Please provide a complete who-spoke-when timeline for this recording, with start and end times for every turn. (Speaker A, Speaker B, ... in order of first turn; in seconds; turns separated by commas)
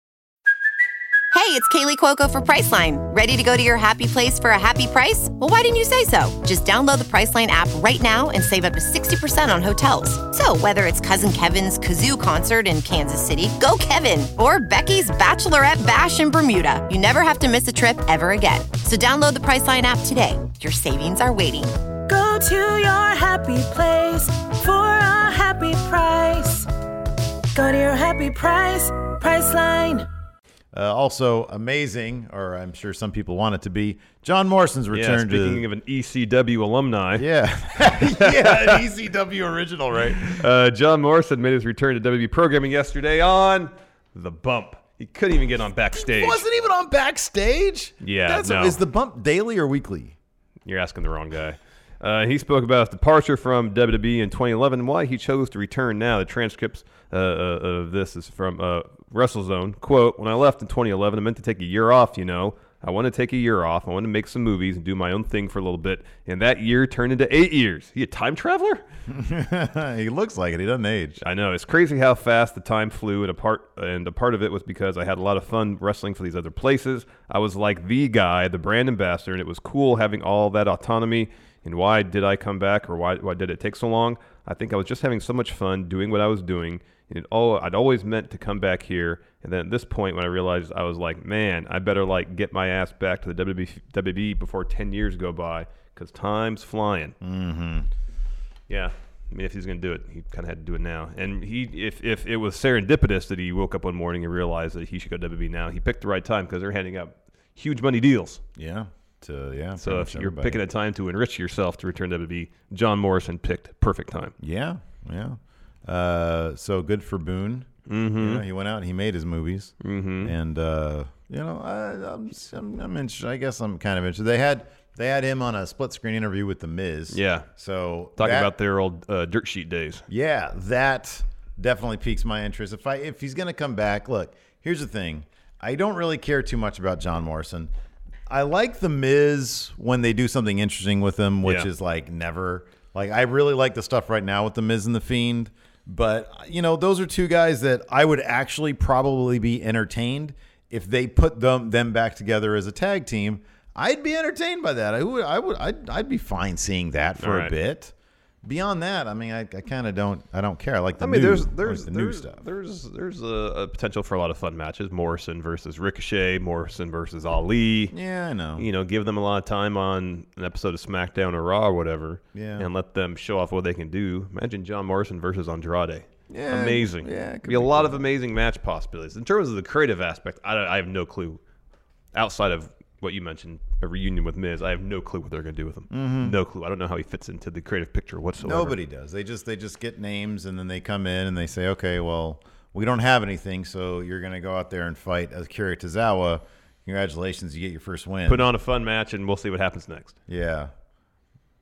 Speaker A: 1.3-21.8, Speaker B: 22.1-26.7, Speaker B: 27.5-30.1, Speaker C: 30.7-35.6, Speaker D: 34.9-37.2, Speaker C: 37.2-40.4, Speaker D: 37.9-38.8, Speaker D: 40.1-46.4, Speaker C: 45.9-50.1, Speaker D: 48.0-48.8, Speaker D: 50.6-68.8, Speaker C: 69.1-71.2, Speaker D: 71.2-97.2, Speaker C: 97.2-97.9, Speaker D: 98.7-108.4, Speaker C: 108.5-110.6, Speaker D: 109.8-114.3, Speaker C: 114.4-128.5, Speaker D: 117.8-118.4, Speaker D: 119.8-120.3, Speaker D: 127.1-127.5, Speaker D: 128.2-130.1, Speaker C: 130.1-137.7, Speaker C: 138.3-157.9, Speaker D: 141.4-141.7, Speaker D: 157.2-157.5, Speaker C: 158.4-162.4, Speaker D: 161.0-167.9, Speaker C: 167.9-168.6, Speaker D: 168.6-181.4, Speaker C: 172.3-172.7, Speaker C: 176.3-178.0, Speaker D: 182.1-188.8, Speaker C: 185.9-186.3, Speaker C: 188.4-198.5, Speaker D: 198.2-200.2, Speaker C: 200.3-200.7